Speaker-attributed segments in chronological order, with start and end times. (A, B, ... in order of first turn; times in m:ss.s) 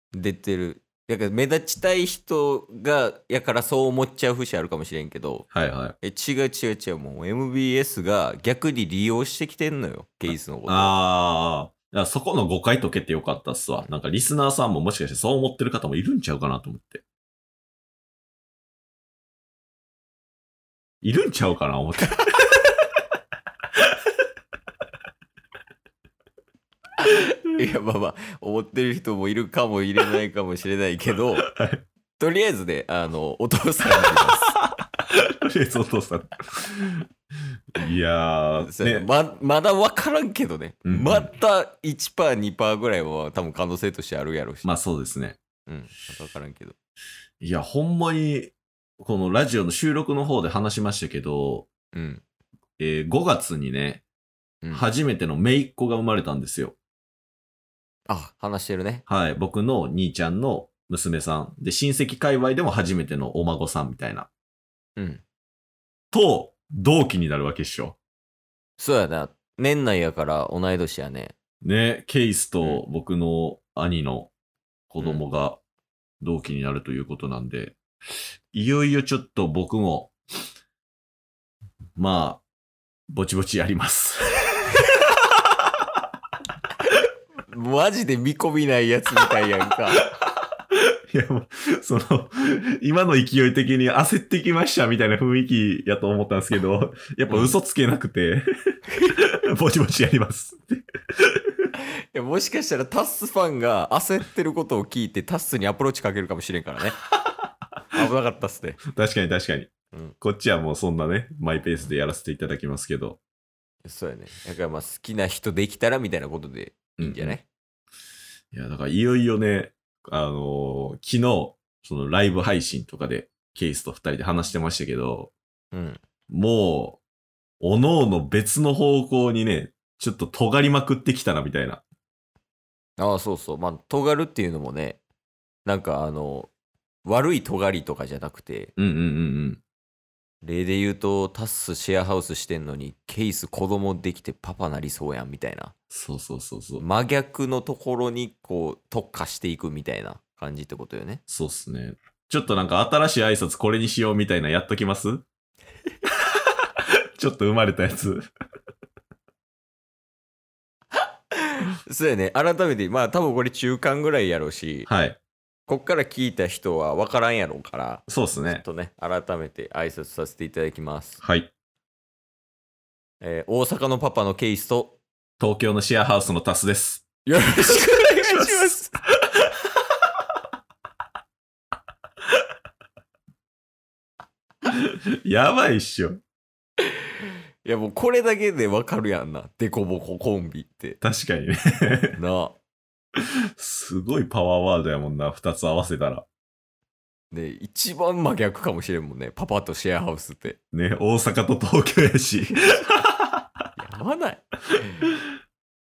0:00.1-0:05.5 A
0:05.5-0:06.0 B
0:06.0-0:11.0 A
0:10.3-0:17.0 B
0:21.0-0:22.5 B
0:27.0-0:31.5 A
0:31.4-0:31.8 B
0:32.2-0:34.5 A
0:35.1-0:37.1 B
0:37.7-0:39.1 B
0:38.6-0:44.7 A
0:40.8-0:41.3 B
0:44.6-0:45.4 B
0:45.6-0:46.7 A
0:47.4-0:51.7 B
0:51.9-0:52.2 A
0:52.8-0:54.0 B
0:54.6-0:54.9 A
0:54.7-0:56.8 B
0:58.1-0:59.0 A
0:59.1-1:04.3 B
1:05.0-1:05.2 A
1:06.1-1:08.0 B
1:08.8-1:11.3 A
1:11.6-1:14.3 B
1:14.9-1:15.6 B
1:16.2-1:17.8 B
1:18.5-1:20.1 B
1:22.0-1:22.4 B
1:23.1-1:24.8 B
1:27.5-1:30.1 A
1:30.7-1:41.7 B
1:37.3-1:37.6 A
1:42.1-1:47.0 A
1:47.9-1:48.8 A
1:48.9-1:53.2 B
1:53.8-1:57.4 A
1:57.0-1:57.4 B
1:58.5-2:05.3 B
2:05.7-2:06.0 A
2:06.3-2:07.0 B
2:07.6-2:11.8 B
2:13.0-2:15.0 A
2:15.6-2:16.5 A
2:17.0-2:18.7 A
2:18.8-2:19.6 B
2:20.4-2:25.7 A
2:25.9-2:26.8 B
2:26.8-2:31.2 A
2:31.3-2:35.2 B
2:36.4-2:38.3 B
2:41.9-2:44.9 A
2:44.8-2:45.2 B
2:45.7-2:51.2 A
2:48.1-2:48.6 B
2:51.2-2:51.5 B
2:53.2-2:55.0 A
2:55.4-2:57.1 B
2:57.2-2:59.0 A
2:57.6-2:58.7 B
3:04.6-3:06.2 B
3:07.6-3:11.0 A
3:11.0-3:12.2 B
3:12.2-3:12.6 A
3:13.6-3:16.2 B
3:17.3-3:20.6 A
3:20.7-3:23.5 B
3:23.8-3:25.1 A